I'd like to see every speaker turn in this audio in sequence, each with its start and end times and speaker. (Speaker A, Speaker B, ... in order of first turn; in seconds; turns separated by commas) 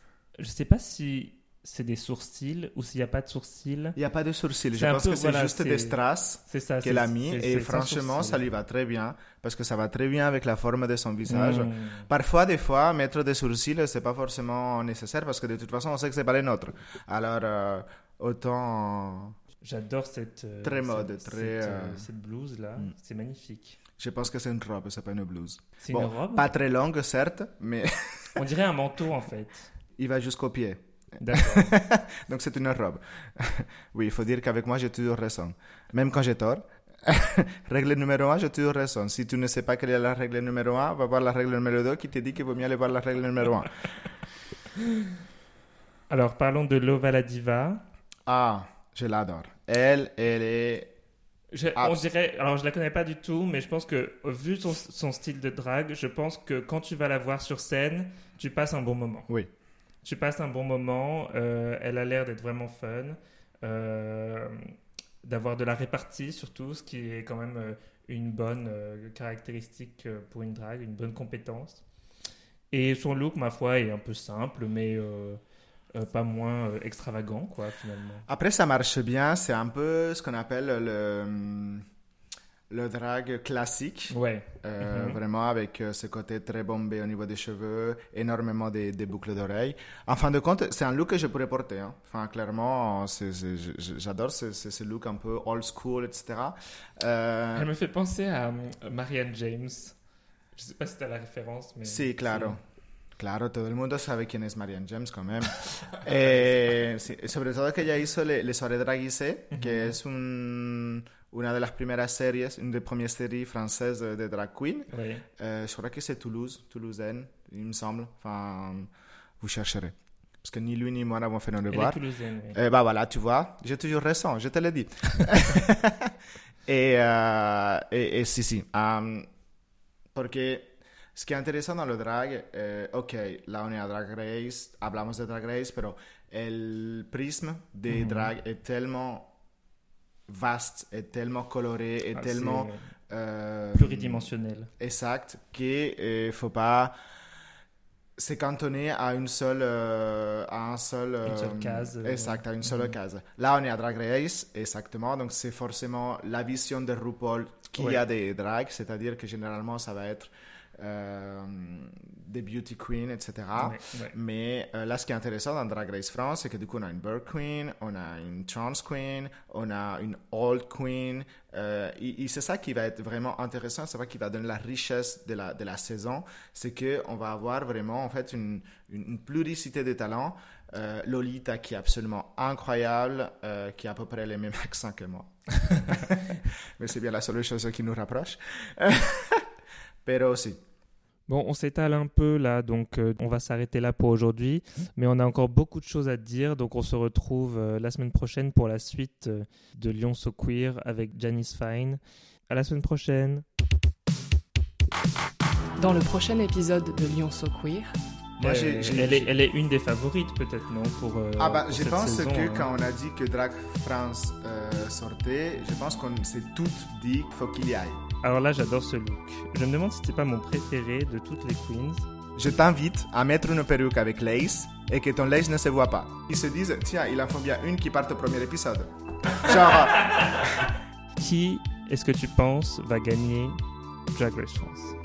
Speaker A: 0.4-4.0, Speaker B: 4.0-19.3, Speaker A: 4.8-8.4, Speaker A: 11.3-12.1, Speaker A: 19.6-23.8, Speaker B: 20.6-22.1, Speaker B: 24.0-28.4, Speaker A: 25.8-26.5, Speaker A: 28.4-29.7, Speaker B: 30.0-43.7, Speaker A: 31.2-31.8, Speaker A: 44.8-45.0, Speaker A: 46.1-47.8, Speaker B: 48.2-50.9, Speaker A: 51.5-59.3, Speaker B: 51.8-52.0, Speaker A: 60.0-71.8, Speaker A: 72.7-75.4, Speaker A: 75.9-78.2, Speaker B: 78.3-81.9, Speaker B: 82.7-97.7, Speaker A: 84.1-85.2, Speaker A: 97.5-100.0, Speaker A: 100.5-102.6, Speaker B: 101.8-102.6, Speaker B: 103.2-122.0, Speaker A: 109.5-109.9, Speaker A: 114.9-115.2, Speaker A: 121.7-122.6, Speaker B: 122.5-126.1, Speaker B: 126.7-129.3, Speaker B: 130.1-139.3, Speaker A: 137.9-138.3, Speaker B: 140.3-146.9, Speaker A: 142.1-142.9, Speaker A: 143.7-144.7, Speaker B: 148.2-189.5, Speaker A: 151.2-152.9, Speaker A: 163.6-164.1, Speaker B: 190.0-190.6, Speaker A: 191.3-203.4, Speaker C: 205.8-208.0, Speaker B: 208.4-209.3, Speaker A: 208.4-212.7, Speaker B: 211.4-218.0, Speaker A: 218.2-222.1, Speaker B: 222.3-230.7, Speaker A: 231.2-233.6, Speaker A: 234.1-235.0